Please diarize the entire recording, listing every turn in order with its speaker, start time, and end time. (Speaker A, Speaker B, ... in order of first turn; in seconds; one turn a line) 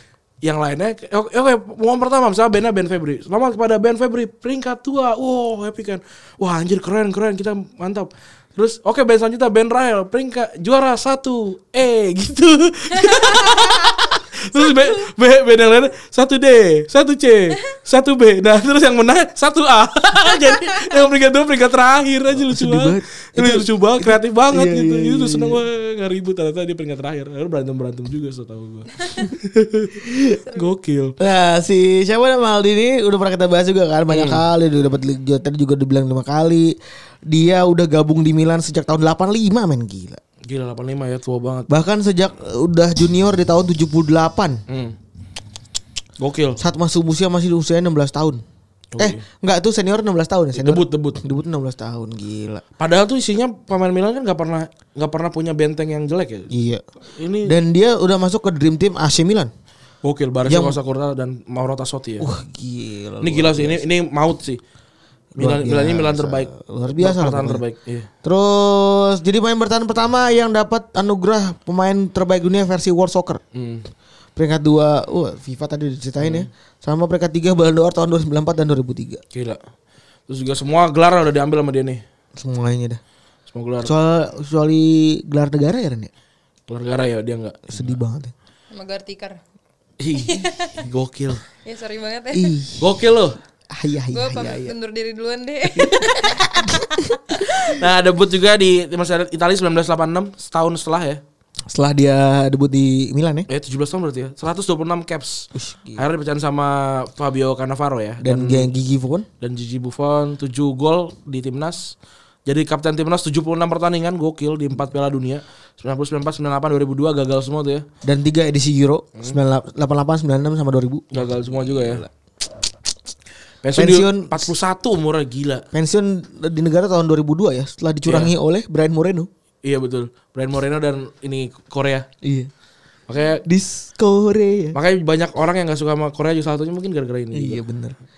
Speaker A: 0.4-31.2
Speaker B: 13.1-13.9
Speaker C: 22.5-25.6
Speaker C: 30.0-30.4
Speaker C: 31.2-36.8
Speaker A: 34.1-34.4
Speaker C: 37.3-40.2
Speaker A: 40.5-41.7
Speaker C: 41.7-44.6
Speaker A: 44.7-45.0
Speaker A: 46.2-46.6
Speaker C: 46.6-48.4
Speaker A: 48.9-49.2
Speaker C: 49.0-52.6
Speaker A: 50.6-51.2
Speaker A: 52.8-56.5
Speaker C: 56.5-56.8
Speaker A: 57.1-57.6
Speaker C: 57.5-59.5
Speaker A: 60.0-62.3
Speaker C: 60.5-60.8
Speaker C: 62.2-63.8
Speaker A: 63.2-64.6
Speaker A: 65.4-68.1
Speaker C: 65.4-67.6
Speaker C: 68.2-73.4
Speaker A: 73.5-73.9
Speaker C: 74.4-79.2
Speaker A: 76.2-76.5
Speaker A: 79.3-79.6
Speaker A: 80.3-82.0
Speaker C: 82.4-83.0
Speaker A: 83.5-83.9
Speaker C: 83.8-86.1
Speaker A: 86.7-88.0
Speaker C: 87.7-88.3
Speaker B: 88.7-89.4
Speaker A: 90.0-91.4
Speaker B: 90.2-90.8
Speaker B: 91.6-92.6
Speaker C: 92.3-92.9
Speaker A: 92.8-93.4
Speaker C: 93.7-94.8
Speaker B: 94.1-97.1
Speaker C: 95.8-97.2
Speaker A: 97.5-101.2
Speaker C: 101.7-103.5
Speaker A: 103.5-108.7
Speaker C: 105.5-106.0
Speaker C: 108.2-109.3
Speaker A: 109.4-112.0
Speaker A: 112.5-117.9
Speaker C: 118.0-122.0
Speaker A: 121.1-122.1
Speaker A: 123.6-125.7
Speaker C: 123.8-124.5
Speaker C: 125.7-129.3
Speaker A: 128.1-128.3
Speaker A: 129.6-132.1
Speaker C: 132.2-132.5
Speaker A: 133.1-133.4
Speaker C: 133.4-134.8
Speaker A: 134.7-137.6
Speaker C: 137.3-138.0